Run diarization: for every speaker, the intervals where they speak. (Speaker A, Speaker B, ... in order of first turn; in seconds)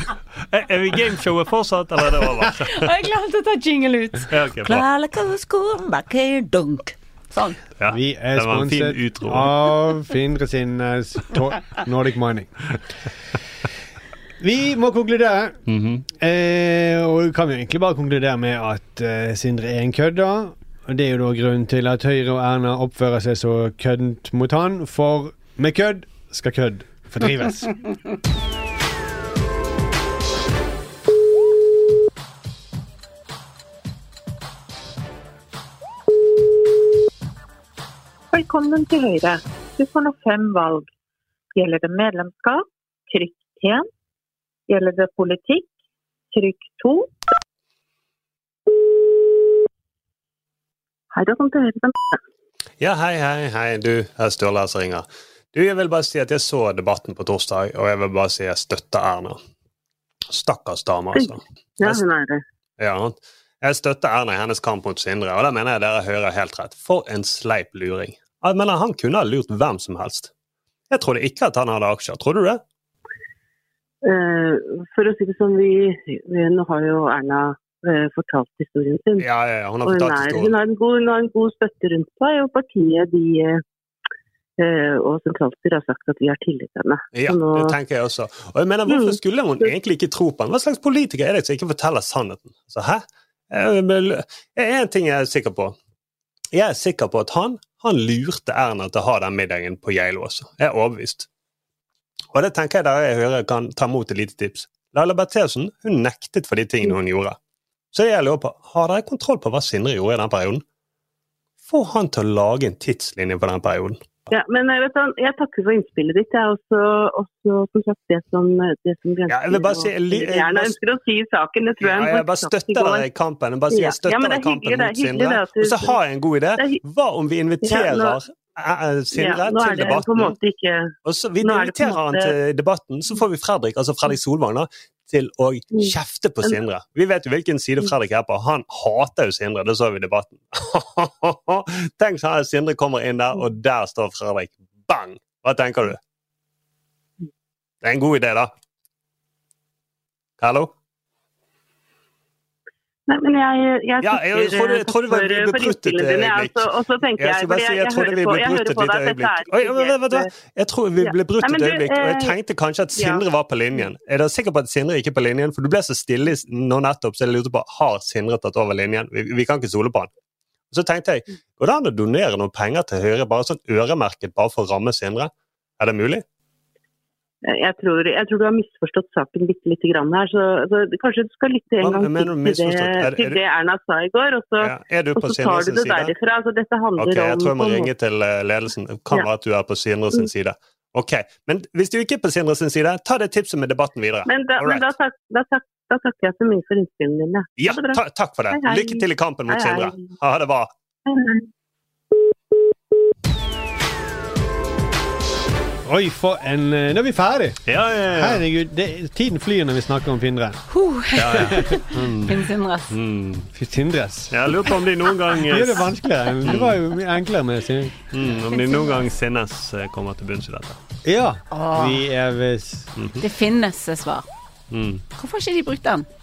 Speaker A: 0.5-2.9, 4.3-4.8, 7.8-9.6, 15.7-16.0, 52.8-59.4, 60.3-62.0, 62.8-70.3, 70.9-72.6, 79.2-80.5, 87.1-95.7, 96.5-101.3, 102.3-107.3, 107.9-110.6, 111.6-114.3, 119.3-120.8, 121.8-130.3, 131.1-146.0, 147.8-148.5, 150.4-150.7, 154.0-170.1, 170.7-176.2, 181.8-183.4, 184.6-186.1, 187.0-194.9, 197.6-200.7, 207.7-208.4, 211.2-212.3, 212.9-213.5, 214.3-215.9, 216.4-216.8, 218.1-220.8, 222.9-223.2, 224.7-225.0
Speaker B: 2.7-7.6, 210.7-212.9, 221.5-222.0, 223.2-224.2, 225.2-226.1
Speaker C: 7.9-12.6, 14.4-15.6, 16.2-27.8, 205.8-210.6, 211.2-211.8, 213.5-214.5, 215.4-217.9, 221.0-222.9
Speaker D: 38.3-40.9, 41.5-43.8, 44.7-45.7, 46.3-47.1
Speaker E: 51.1-52.2, 61.1-62.4, 74.0-79.3, 79.8-83.6, 84.6-87.8, 88.9-89.7, 114.3-123.1, 123.7-126.0, 127.6-128.2, 129.1-132.3, 135.7-136.6, 153.1-160.3, 161.0-162.4, 162.9-163.2, 177.4-187.9, 194.3-200.1, 201.1-201.4